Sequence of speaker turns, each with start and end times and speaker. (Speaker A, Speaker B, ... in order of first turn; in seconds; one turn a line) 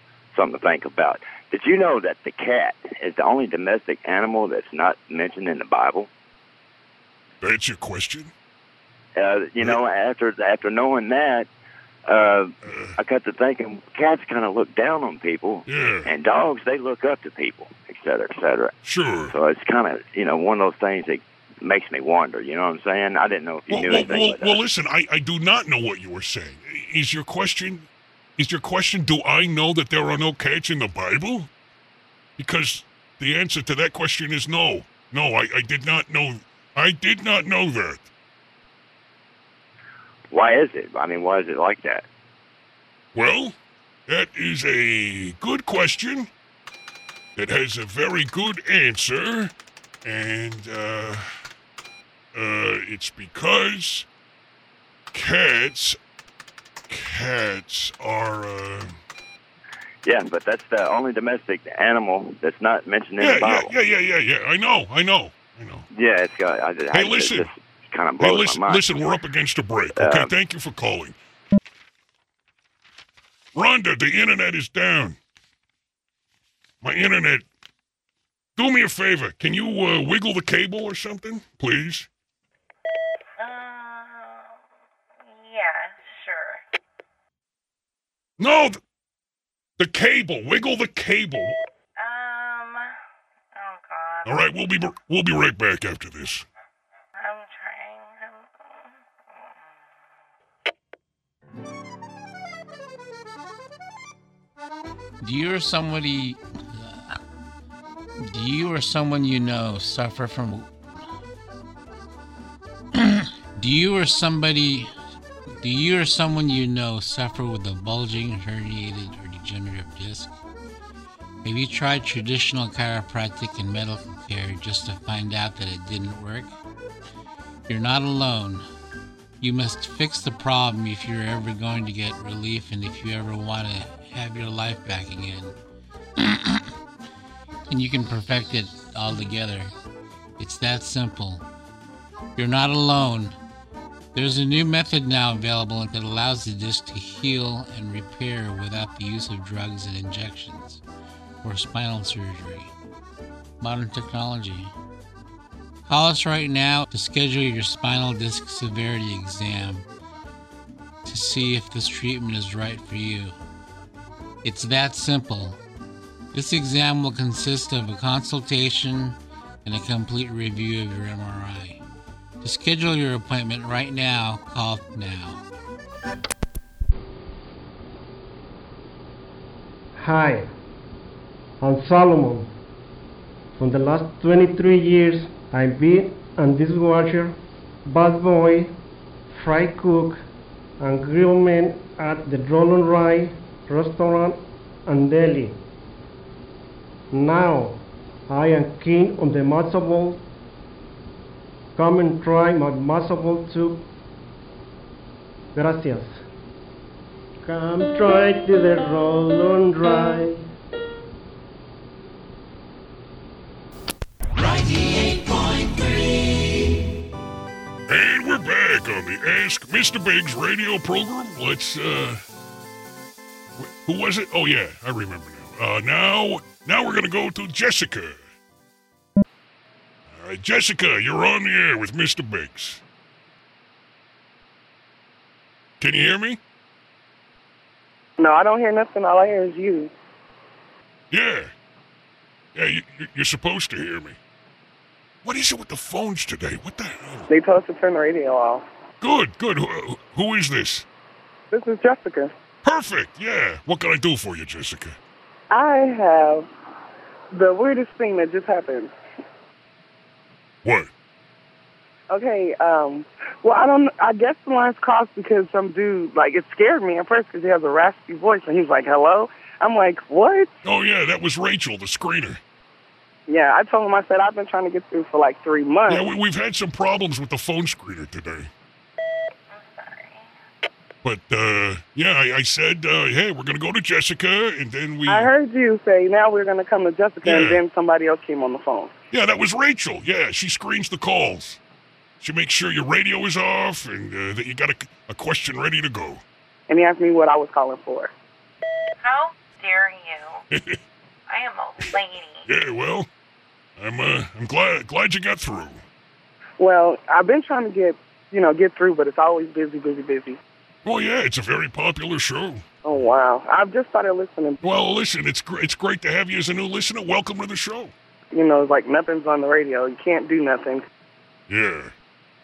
Speaker A: 0.3-6.1
Speaker B: 7.4-8.3
Speaker A: 9.2-11.5
Speaker A: 12.1-18.7
Speaker B: 12.6-13.0
Speaker B: 15.7-16.1
Speaker B: 18.8-19.3
Speaker A: 19.3-24.6
Speaker B: 23.7-31.5
Speaker B: 32.4-38.1
Speaker A: 40.3-42.1
Speaker B: 43.1-43.5
Speaker B: 44.1-46.3
Speaker B: 47.4-49.5
Speaker B: 50.0-51.3
Speaker B: 52.3-54.1
Speaker B: 55.1-56.0
Speaker B: 56.9-59.0
Speaker A: 60.0-63.7
Speaker B: 63.2-65.9
Speaker A: 65.9-68.8
Speaker B: 66.9-67.5
Speaker B: 68.2-71.2
Speaker A: 70.0-70.3
Speaker B: 73.5-75.2
Speaker B: 76.8-77.5
Speaker B: 78.6-82.1
Speaker C: 83.4-84.6
Speaker C: 85.2-86.7
Speaker B: 88.4-88.8
Speaker B: 89.8-91.6
Speaker C: 92.0-93.0
Speaker C: 93.5-94.5
Speaker B: 94.2-96.5
Speaker C: 97.2-99.8
Speaker D: 105.2-107.2
Speaker D: 108.2-110.7
Speaker D: 112.9-114.9
Speaker D: 115.6-120.3
Speaker D: 121.4-126.5
Speaker D: 127.7-128.7
Speaker D: 129.4-135.6
Speaker D: 136.2-136.7
Speaker D: 137.7-139.7
Speaker D: 140.4-141.4
Speaker D: 142.4-143.4
Speaker D: 144.2-150.8
Speaker D: 151.4-152.7
Speaker D: 153.6-154.7
Speaker D: 155.9-159.9
Speaker D: 161.1-163.3
Speaker D: 164.4-165.6
Speaker D: 166.3-171.8
Speaker D: 172.4-175.4
Speaker E: 180.0-180.5
Speaker E: 181.6-182.5
Speaker E: 183.6-187.4
Speaker E: 187.9-188.7
Speaker E: 189.3-190.2
Speaker E: 190.8-195.6
Speaker E: 197.1-200.2
Speaker E: 201.8-203.8
Speaker E: 205.6-206.2
Speaker E: 207.4-210.5
Speaker B: 217.9-222.2
Speaker B: 223.6-228.2
Speaker B: 230.1-232.8
Speaker B: 235.8-236.4
Speaker F: 238.2-239.9
Speaker B: 241.1-241.5
Speaker B: 242.6-244.2
Speaker B: 245.2-247.3
Speaker F: 247.3-248.6
Speaker B: 249.0-250.9
Speaker F: 251.5-252.3
Speaker B: 252.6-255.0
Speaker F: 255.5-256.5
Speaker F: 257.3-258.9
Speaker B: 260.6-260.9
Speaker F: 262.1-270.5
Speaker B: 270.6-272.4
Speaker F: 273.3-276.0
Speaker B: 275.9-278.5
Speaker C: 279.5-280.3
Speaker B: 281.0-285.3
Speaker F: 285.1-288.9
Speaker B: 287.2-287.6
Speaker B: 289.1-291.6
Speaker B: 292.2-296.2
Speaker F: 296.7-298.1
Speaker C: 299.0-300.5
Speaker B: 300.5-300.8
Speaker C: 301.3-302.5
Speaker B: 302.5-303.1
Speaker B: 303.8-305.8
Speaker F: 306.6-310.4
Speaker B: 310.9-312.6
Speaker F: 312.8-314.6
Speaker B: 314.6-317.9
Speaker F: 318.3-320.8
Speaker B: 321.5-321.9